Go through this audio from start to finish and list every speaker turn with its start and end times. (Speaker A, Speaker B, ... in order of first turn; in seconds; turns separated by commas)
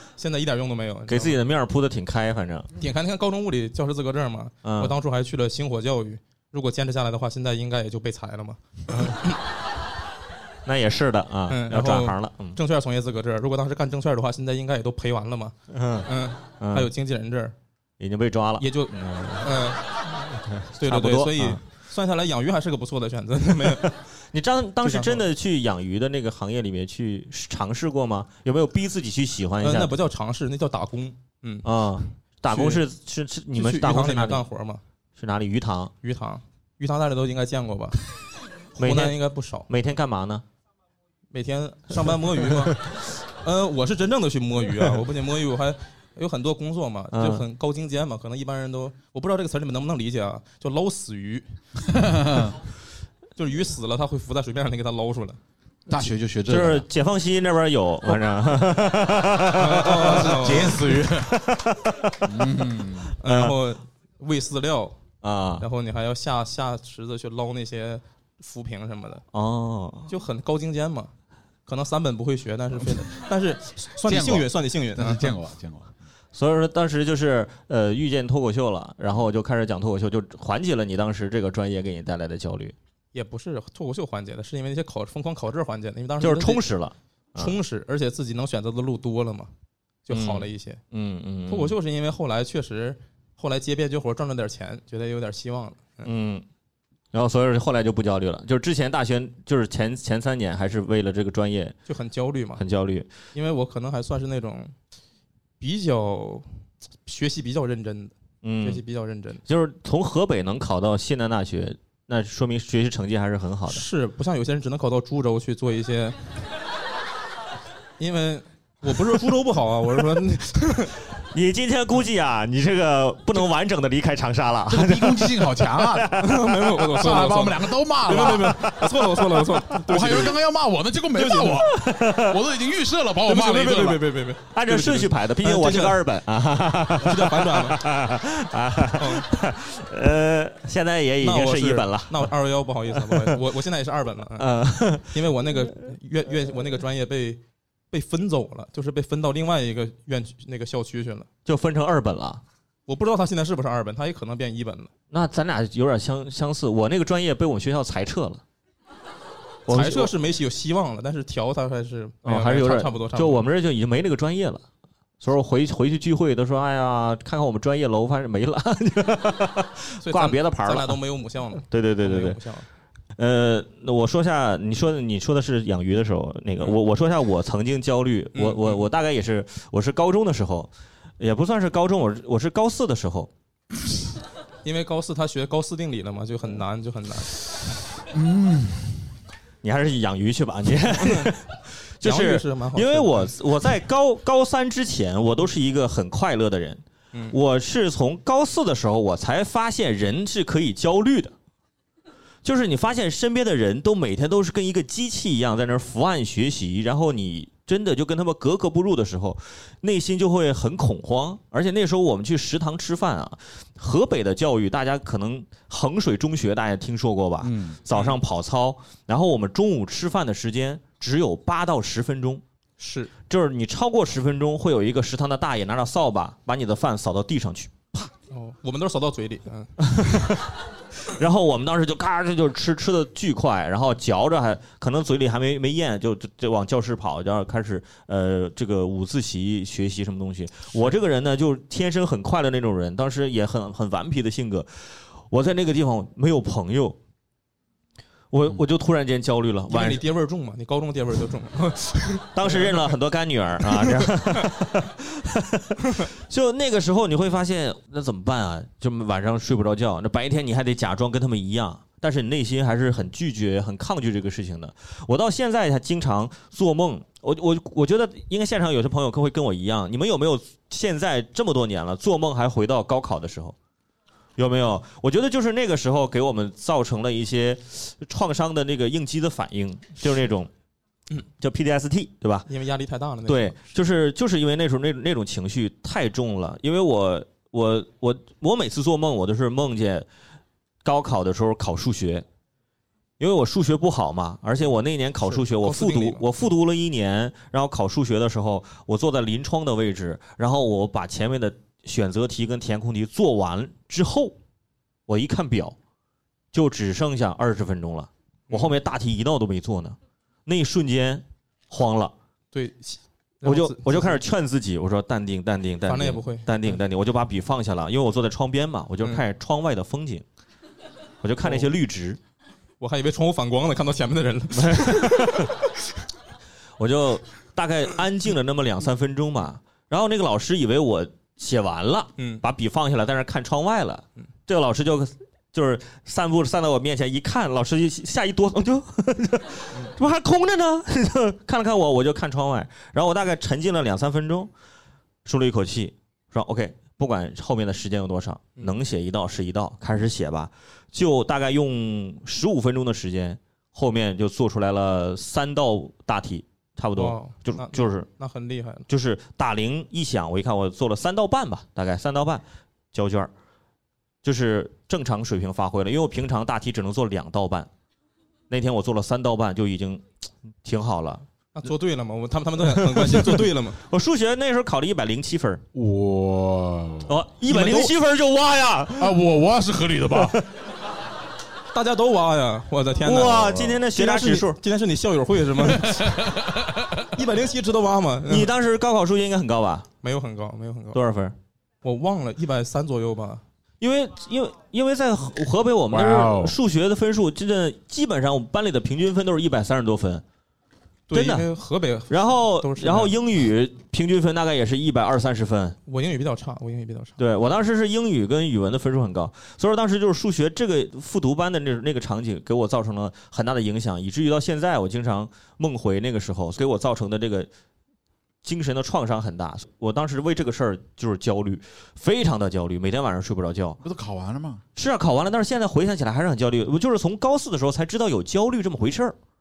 Speaker A: 0.2-1.4, Speaker B: 1.1-2.7, Speaker A: 2.8-9.3, Speaker B: 4.6-5.0, Speaker B: 10.7-12.6, Speaker A: 11.5-15.6, Speaker B: 15.7-16.9, Speaker A: 16.1-17.6, Speaker B: 18.0-19.7, Speaker A: 18.6-19.8, Speaker B: 20.3-21.6, Speaker A: 20.8-23.9, Speaker B: 23.7-30.0, Speaker A: 24.8-25.3, Speaker A: 29.6-31.7, Speaker B: 31.6-34.5, Speaker A: 32.5-32.8, Speaker A: 33.5-34.8, Speaker B: 35.2-35.9, Speaker A: 36.0-38.0, Speaker A: 38.8-39.7, Speaker B: 38.8-40.5, Speaker A: 41.3-51.5, Speaker B: 47.1-47.5, Speaker C: 51.9-52.6, Speaker A: 53.4-55.4, Speaker C: 55.9-56.9, Speaker B: 56.5-62.2, Speaker A: 59.6-60.8, Speaker C: 59.9-61.4, Speaker C: 62.2-63.1, Speaker A: 63.2-65.0, Speaker B: 63.2-63.6, Speaker B: 65.2-65.7, Speaker A: 65.6-69.2, Speaker B: 69.3-70.1, Speaker A: 70.1-71.1, Speaker A: 71.7-75.3, Speaker C: 74.0-76.0, Speaker B: 76.3-82.8, Speaker A: 83.1-86.6, Speaker B: 86.2-87.5, Speaker A: 87.4-89.5, Speaker A: 90.1-90.8, Speaker B: 90.1-91.8, Speaker A: 91.5-96.1, Speaker B: 96.0-96.5, Speaker B: 97.1-101.8, Speaker A: 101.9-102.6, Speaker B: 102.6-103.1, Speaker A: 103.3-104.7, Speaker A: 105.6-106.5, Speaker A: 107.0-109.4, Speaker B: 108.4-108.8, Speaker B: 109.5-113.8, Speaker A: 113.7-116.2, Speaker A: 118.0-121.0, Speaker B: 121.3-126.5, Speaker C: 124.7-126.4, Speaker A: 126.2-130.4, Speaker C: 126.9-128.7, Speaker B: 128.2-128.9, Speaker C: 129.8-134.1, Speaker A: 131.2-131.5, Speaker B: 131.7-132.4, Speaker A: 133.3-136.0, Speaker B: 134.5-142.3, Speaker A: 137.0-137.8, Speaker A: 139.0-139.3, Speaker A: 141.2-144.5, Speaker B: 142.9-143.4, Speaker B: 144.4-145.2, Speaker A: 145.0-147.4, Speaker A: 147.9-151.3, Speaker B: 151.5-152.4, Speaker A: 152.9-154.9, Speaker B: 155.1-158.4, Speaker B: 159.7-160.1, Speaker A: 159.7-163.5, Speaker B: 162.2-164.6, Speaker B: 165.2-171.0, Speaker A: 170.0-172.7, Speaker B: 171.6-172.4, Speaker B: 173.2-183.3, Speaker A: 178.3-178.9, Speaker A: 184.6-187.3, Speaker C: 188.1-189.1, Speaker B: 189.6-201.3, Speaker A: 191.0-191.3, Speaker A: 192.0-193.3, Speaker B: 202.4-222.4, Speaker C: 217.4-217.8, Speaker A: 217.9-218.2, Speaker A: 222.8-223.1, Speaker B: 223.3-228.1, Speaker A: 228.3-230.2, Speaker B: 229.8-247.0, Speaker B: 248.3-250.0, Speaker A: 249.7-252.8, Speaker B: 252.3-273.6, Speaker A: 253.8-254.5, Speaker B: 274.4-280.5, Speaker B: 281.4-282.5, Speaker A: 282.5-283.6, Speaker B: 283.3-290.1, Speaker B: 290.8-292.2, Speaker B: 293.2-304.4, Speaker A: 295.2-296.3, Speaker B: 305.1-305.8, Speaker B: 306.5-312.1, Speaker A: 312.5-314.2, Speaker B: 313.4-320.2, Speaker A: 315.9-316.8, Speaker B: 321.2-322.2, Speaker A: 321.4-321.7, Speaker A: 322.8-325.6, Speaker B: 324.6-325.5, Speaker B: 326.8-344.5, Speaker A: 332.2-332.4, Speaker B: 345.2-358.1, Speaker A: 357.0-358.9, Speaker B: 358.9-363.3, Speaker B: 364.2-367.7, Speaker B: 368.5-370.0, Speaker B: 370.6-371.3, Speaker A: 371.6-373.8, Speaker B: 372.7-375.6, Speaker C: 375.7-377.1, Speaker B: 377.1-379.2, Speaker A: 377.5-377.9, Speaker C: 379.0-380.4, Speaker A: 381.7-386.5, Speaker B: 383.0-384.6, Speaker C: 385.9-386.9, Speaker A: 387.1-388.5, Speaker B: 388.3-389.9, Speaker A: 390.0-391.0, Speaker B: 390.9-391.4, Speaker A: 391.8-393.4, Speaker B: 393.8-400.2, Speaker C: 395.9-396.6, Speaker A: 401.1-403.1, Speaker B: 401.1-401.5, Speaker B: 402.1-405.8, Speaker A: 405.9-407.2, Speaker B: 407.2-417.5, Speaker B: 418.4-423.8, Speaker C: 423.8-424.6, Speaker B: 424.8-429.2